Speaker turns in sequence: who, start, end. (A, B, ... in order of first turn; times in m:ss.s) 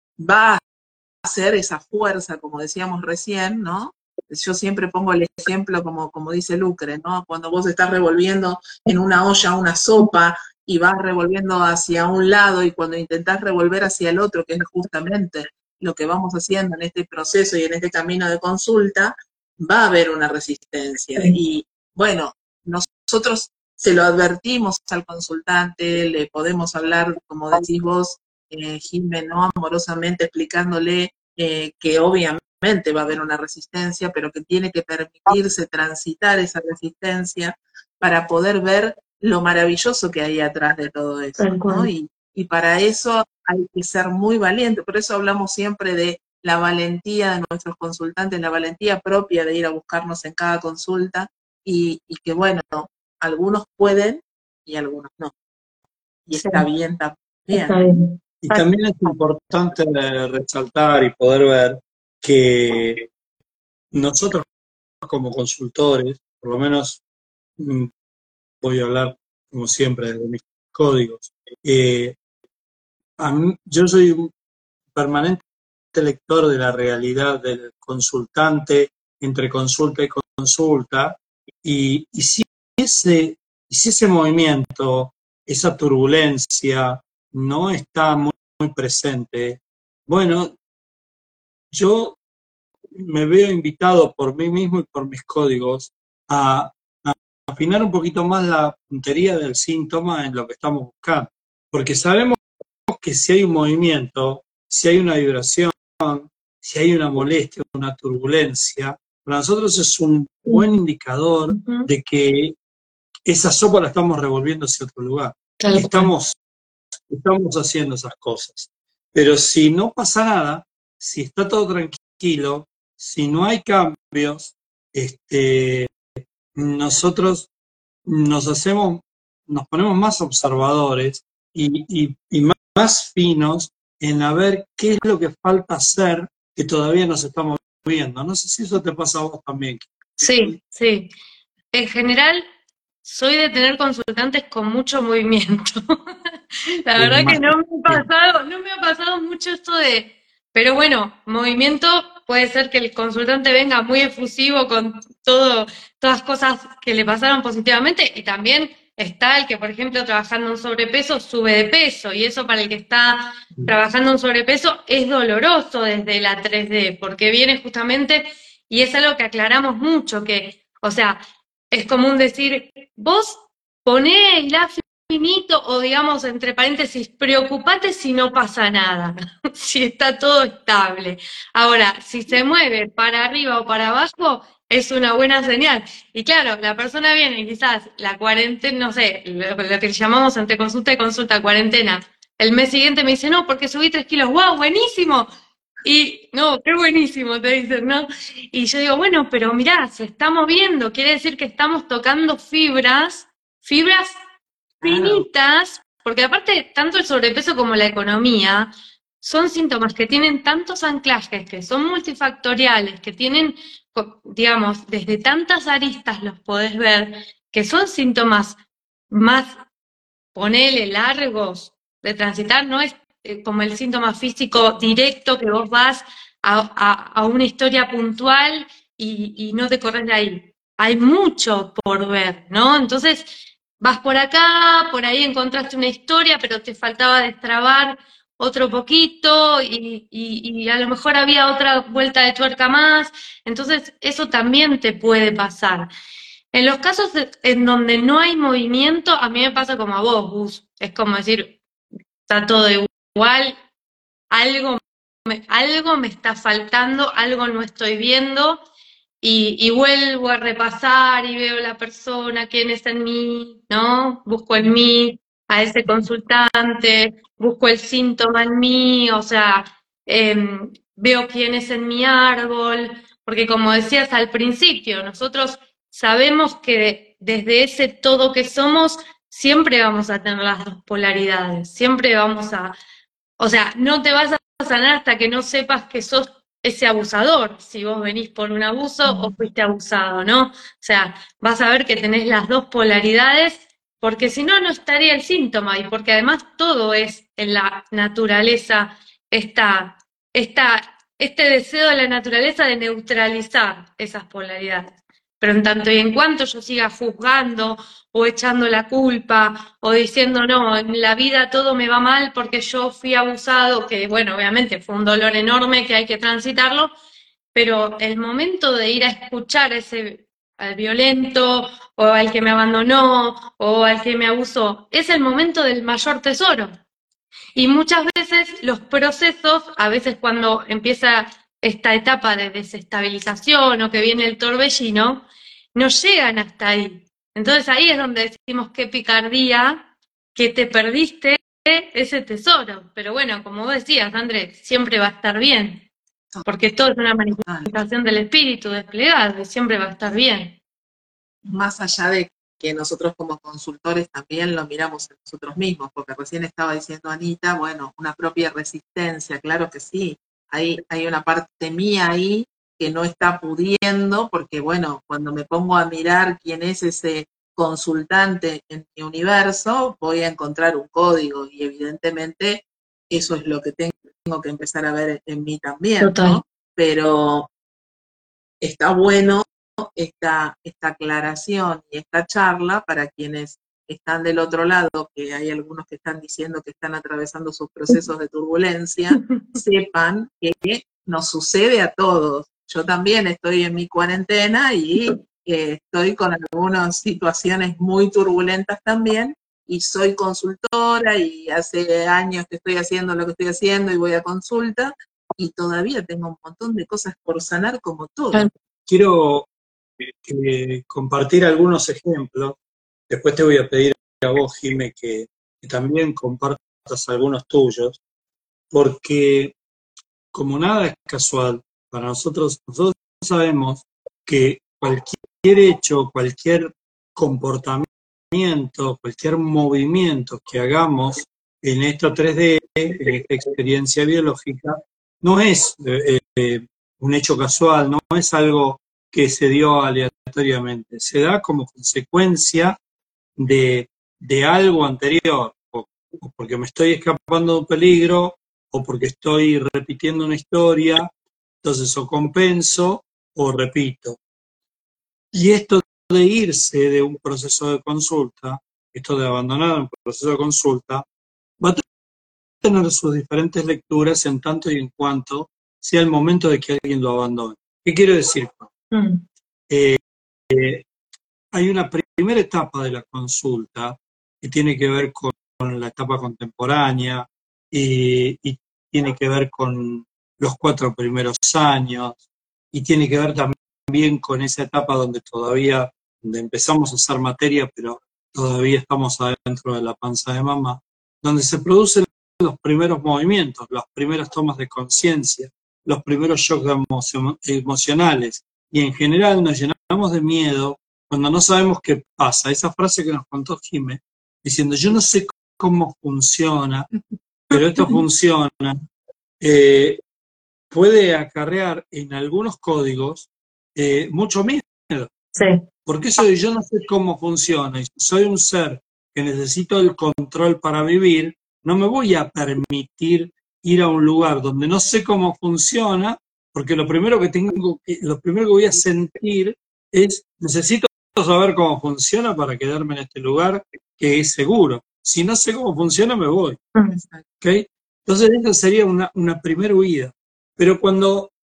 0:00.2-0:00.6 A
0:01.2-0:55.3 A
0:41.4-0:41.9 B
0:56.3-0:57.8 A
0:56.4-0:56.6 B
0:57.5-0:58.7 B
0:58.4-1:03.0 C
1:03.9-1:04.5 C
1:05.0-1:07.0 C
1:07.6-1:07.9 C
1:08.6-1:12.2 C
1:13.2-1:14.3 C
1:15.0-1:30.6 C
1:31.7-1:32.2 C
1:32.9-1:52.6 C
1:51.5-1:51.9 B
1:53.3-1:56.4 C
1:55.6-1:56.1 B
1:57.1-2:06.0 C
2:06.6-2:07.5 C
2:08.1-2:20.5 C
2:20.2-2:21.1 B
2:21.7-2:22.4 B
2:23.0-2:26.0 B
2:26.8-2:51.2 B
2:27.0-2:28.0 C
2:51.7-3:15.3 B
3:15.8-3:24.2 B
3:24.8-3:38.6 B
3:24.8-3:25.2 C
3:39.1-3:39.5 B
3:40.4-4:05.9 B
4:06.5-4:11.6 B
4:12.3-4:13.6 B
4:14.3-4:18.6 B
4:19.2-4:42.8 B
4:43.4-5:16.9 B
5:17.5-5:26.7 B
5:27.6-5:39.8 B
5:40.4-5:45.9 B
5:46.5-5:50.6 B
5:47.4-5:47.7 A
5:51.4-6:17.5 A
6:16.0-6:16.4 B
6:18.6-6:48.5 A
6:29.2-6:29.5 B
6:48.9-6:49.5 C
6:50.2-6:52.6 C
6:53.1-6:58.0 C
6:58.7-6:59.6 C
7:00.3-7:22.8 C
7:23.4-7:31.1 C
7:31.6-7:34.2 C
7:35.3-7:41.0 C
7:42.6-7:48.7 C
7:48.9-7:49.2 B
7:49.7-7:50.0 C
7:50.5-7:50.9 C
7:51.5-8:02.2 C
8:02.7-8:26.9 C
8:27.5-8:28.8 C
8:29.4-8:30.0 C
8:30.7-8:35.1 C
8:35.4-8:35.6 B
8:35.8-8:56.6 C
8:56.9-8:57.2 A
8:57.4-9:01.3 C